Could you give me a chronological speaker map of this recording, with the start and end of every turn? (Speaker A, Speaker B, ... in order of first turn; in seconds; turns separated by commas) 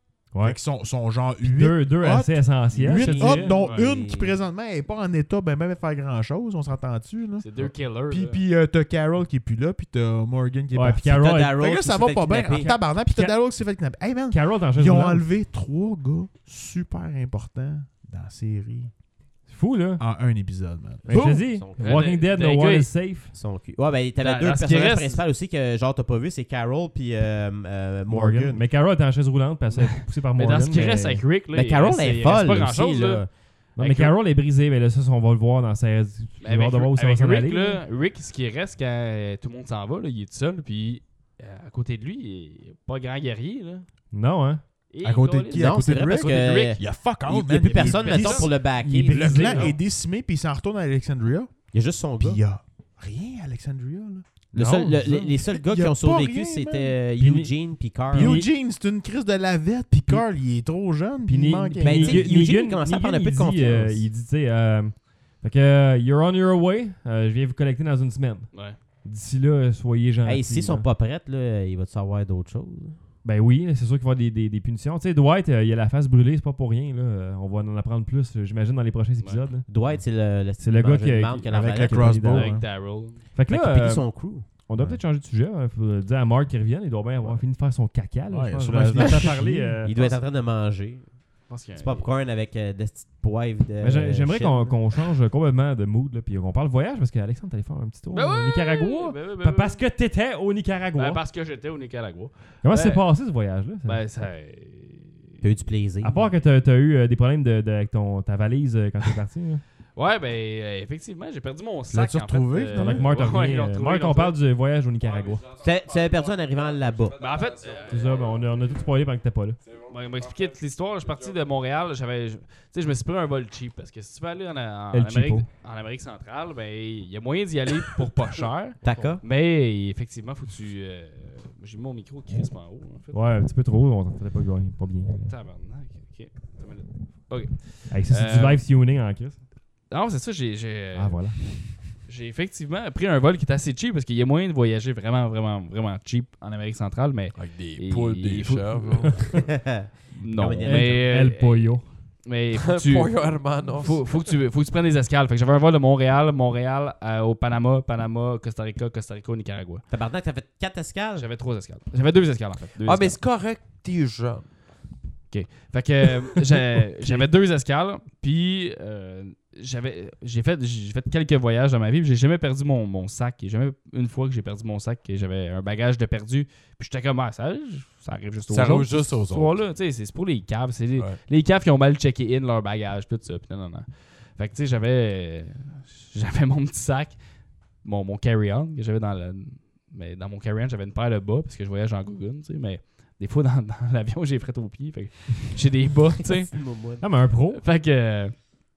Speaker A: 0.3-0.6, Speaker B: 0.4-18.9, Speaker A: 1.4-3.5, Speaker C: 2.9-4.3, Speaker D: 3.0-3.9, Speaker D: 7.4-8.4, Speaker A: 10.7-11.6, Speaker C: 11.2-12.7, Speaker A: 12.6-13.3, Speaker A: 14.3-15.2, Speaker A: 19.5-20.0, Speaker B: 20.0-21.4, Speaker C: 21.1-22.1, Speaker A: 21.1-23.3, Speaker D: 21.2-22.9, Speaker C: 23.3-28.6, Speaker D: 24.2-25.2, Speaker A: 28.1-31.3, Speaker B: 28.2-28.5, Speaker D: 29.7-33.3, Speaker C: 31.5-33.3, Speaker A: 33.8-37.8, Speaker D: 33.8-34.1, Speaker D: 36.4-43.9, Speaker A: 44.1-44.6, Speaker D: 44.9-46.8, Speaker B: 45.0-51.5, Speaker C: 45.6-49.7, Speaker D: 47.6-48.5, Speaker A: 48.8-49.7, Speaker C: 51.7-52.4, Speaker B: 52.2-57.0, Speaker C: 54.5-58.4, Speaker A: 54.6-55.2, Speaker A: 57.2-57.5, Speaker A: 58.1-58.5, Speaker B: 58.1-62.4, Speaker A: 61.3-70.9, Speaker C: 61.8-64.0, Speaker C: 70.2-73.0, Speaker A: 73.2-80.0, Speaker C: 79.7-82.3, Speaker A: 80.6-82.5, Speaker B: 81.5-82.7, Speaker D: 82.3-83.2, Speaker A: 83.3-90.0, Speaker C: 83.5-84.5, Speaker B: 88.3-89.9, Speaker C: 89.0-89.3, Speaker C: 89.8-91.2, Speaker D: 91.5-92.1, Speaker C: 91.7-95.1, Speaker A: 93.8-101.2, Speaker D: 98.1-99.8, Speaker D: 101.0-103.0, Speaker A: 102.6-104.0, Speaker D: 103.8-105.4, Speaker C: 105.4-106.2, Speaker A: 106.0-109.6, Speaker D: 110.0-114.4, Speaker B: 111.9-113.1, Speaker A: 112.8-115.5, Speaker E: 115.0-118.7, Speaker C: 115.6-117.2, Speaker D: 117.2-118.1, Speaker A: 117.9-119.6, Speaker E: 119.6-121.4, Speaker D: 119.9-133.2, Speaker A: 124.9-125.5, Speaker C: 128.8-129.2, Speaker A: 133.1-135.3, Speaker D: 135.3-138.6, Speaker A: 137.9-139.4, Speaker D: 139.9-149.4, Speaker A: 140.9-141.7, Speaker E: 147.3-149.4, Speaker C: 149.4-151.1, Speaker D: 150.1-159.8, Speaker A: 150.6-151.9, Speaker E: 152.6-154.1, Speaker C: 159.9-161.3, Speaker D: 161.2-163.2, Speaker E: 162.8-164.5, Speaker D: 165.3-187.2, Speaker E: 178.5-179.6, Speaker D: 187.8-196.7, Speaker C: 196.5-197.1, Speaker A: 197.0-197.6, Speaker D: 197.5-198.5